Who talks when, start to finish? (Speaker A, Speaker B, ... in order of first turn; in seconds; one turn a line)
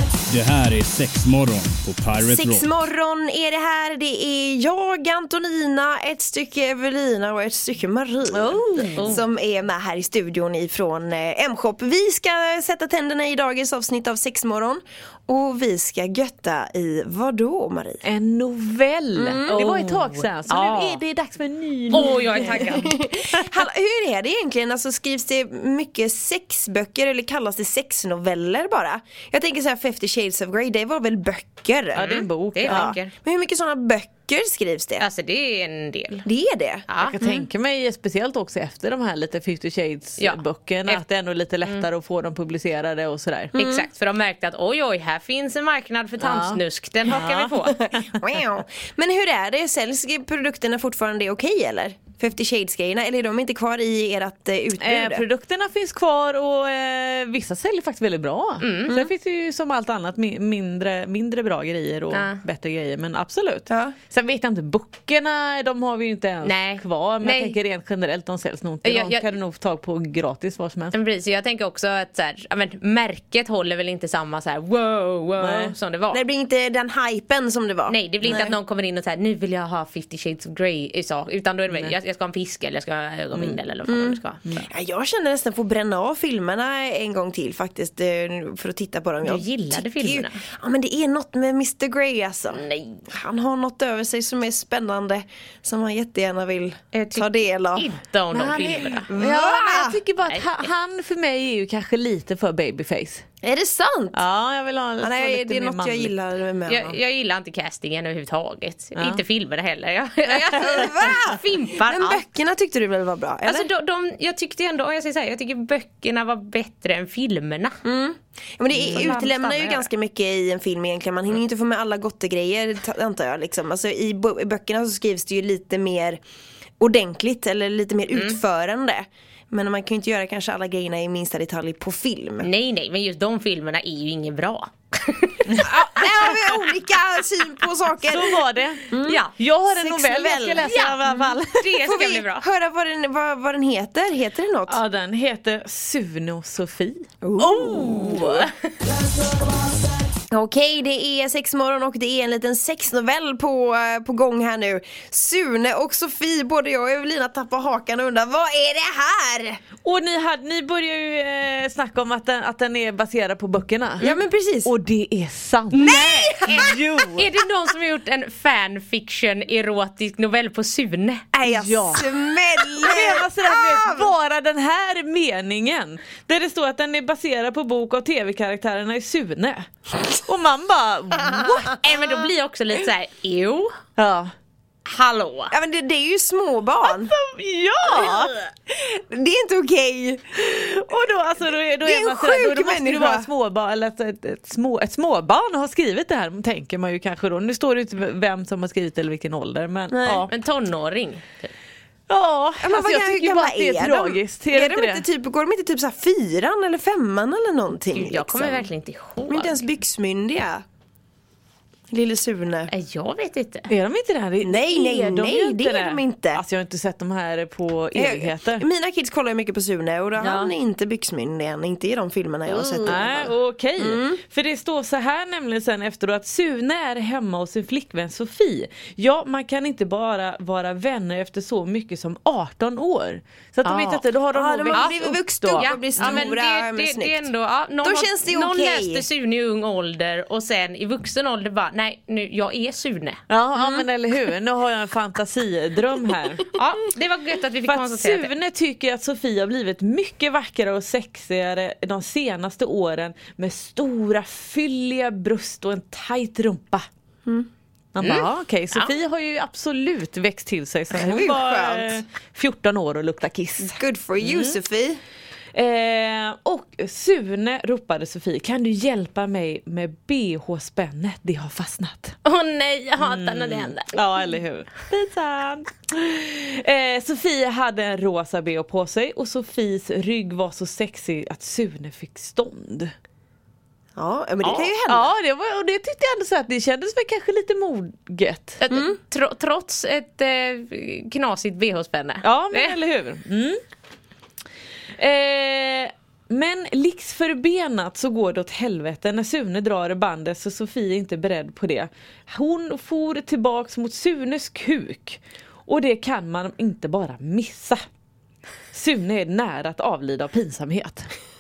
Speaker A: 0.3-2.7
Speaker B: 2.2-18.0
Speaker C: 8.3-9.2
Speaker D: 8.9-9.2
Speaker C: 18.0-23.5
Speaker B: 19.1-19.7
Speaker D: 19.4-21.0
Speaker D: 21.9-22.9
Speaker B: 22.3-32.1
Speaker C: 31.9-33.0
Speaker D: 32.0-33.1
Speaker B: 32.6-35.0
Speaker D: 35.0-36.2
Speaker B: 36.2-37.5
Speaker D: 36.9-37.1
Speaker C: 37.0-43.6
Speaker D: 40.2-41.0
Speaker B: 43.5-43.9
Speaker D: 43.5-47.8
Speaker C: 46.2-48.2
Speaker B: 48.1-55.2
Speaker C: 54.8-71.0
Speaker D: 58.6-58.9
Speaker D: 62.1-62.4
Speaker B: 63.7-63.9
Speaker D: 66.4-67.5
Speaker D: 68.8-69.3
Speaker D: 70.9-76.2
Speaker C: 75.4-75.7
Speaker B: 76.1-78.6
Speaker D: 77.9-84.4
Speaker B: 83.9-97.9
Speaker D: 89.2-90.4
Speaker D: 92.5-93.0
Speaker D: 96.9-99.1
Speaker C: 98.3-103.2
Speaker B: 99.1-100.0
Speaker D: 100.3-100.6
Speaker B: 103.4-104.2
Speaker C: 104.1-106.1
Speaker B: 105.0-107.0
Speaker D: 106.7-112.2
Speaker C: 109.0-109.2
Speaker B: 110.3-113.7
Speaker D: 113.4-117.7
Speaker B: 117.8-126.2
Speaker C: 118.7-119.2
Speaker D: 118.8-119.9
Speaker B: 126.8-132.5
Speaker D: 132.4-135.5
Speaker B: 135.6-140.7
Speaker C: 138.0-141.8
Speaker D: 139.1-139.3
Speaker D: 140.6-141.0
Speaker D: 141.6-142.4
Speaker B: 141.8-144.8
Speaker C: 144.7-148.5
Speaker B: 147.2-148.2
Speaker D: 148.0-148.4
Speaker B: 150.3-159.6
Speaker C: 159.8-164.1
Speaker B: 164.0-164.7
Speaker C: 164.6-167.3
Speaker D: 165.7-171.2
Speaker B: 165.8-166.7
Speaker B: 171.3-174.1
Speaker C: 171.4-182.3
Speaker D: 181.8-183.7
Speaker C: 184.0-184.3
Speaker D: 184.8-185.5
Speaker B: 185.5-187.1
Speaker C: 186.8-188.3
Speaker B: 188.1-190.2
Speaker C: 190.4-200.3
Speaker B: 191.8-193.3
Speaker B: 199.9-200.2
Speaker D: 200.2-201.5
Speaker C: 202.1-205.0
Speaker B: 202.6-208.7
Speaker D: 207.9-209.6
Speaker B: 209.3-210.6
Speaker B: 211.9-212.7
Speaker D: 212.7-213.7
Speaker C: 213.7-218.7
Speaker B: 214.4-216.4
Speaker B: 217.9-224.2
Speaker C: 220.2-220.5
Speaker C: 222.5-236.3
Speaker B: 234.3-237.3
Speaker D: 234.7-235.0
Speaker D: 235.5-243.2
Speaker B: 237.8-239.0
Speaker C: 243.3-246.5
Speaker B: 243.6-243.8
Speaker D: 246.5-248.3
Speaker C: 247.7-256.8
Speaker C: 257.9-264.6
Speaker B: 260.9-262.0
Speaker B: 263.7-265.0
Speaker C: 265.5-272.2
Speaker D: 272.2-274.0
Speaker C: 273.0-282.9
Speaker B: 283.9-285.1
Speaker C: 284.4-288.6
Speaker D: 288.6-292.7
Speaker B: 288.7-289.0
Speaker C: 292.2-293.6
Speaker C: 295.0-307.8
Speaker C: 308.7-311.1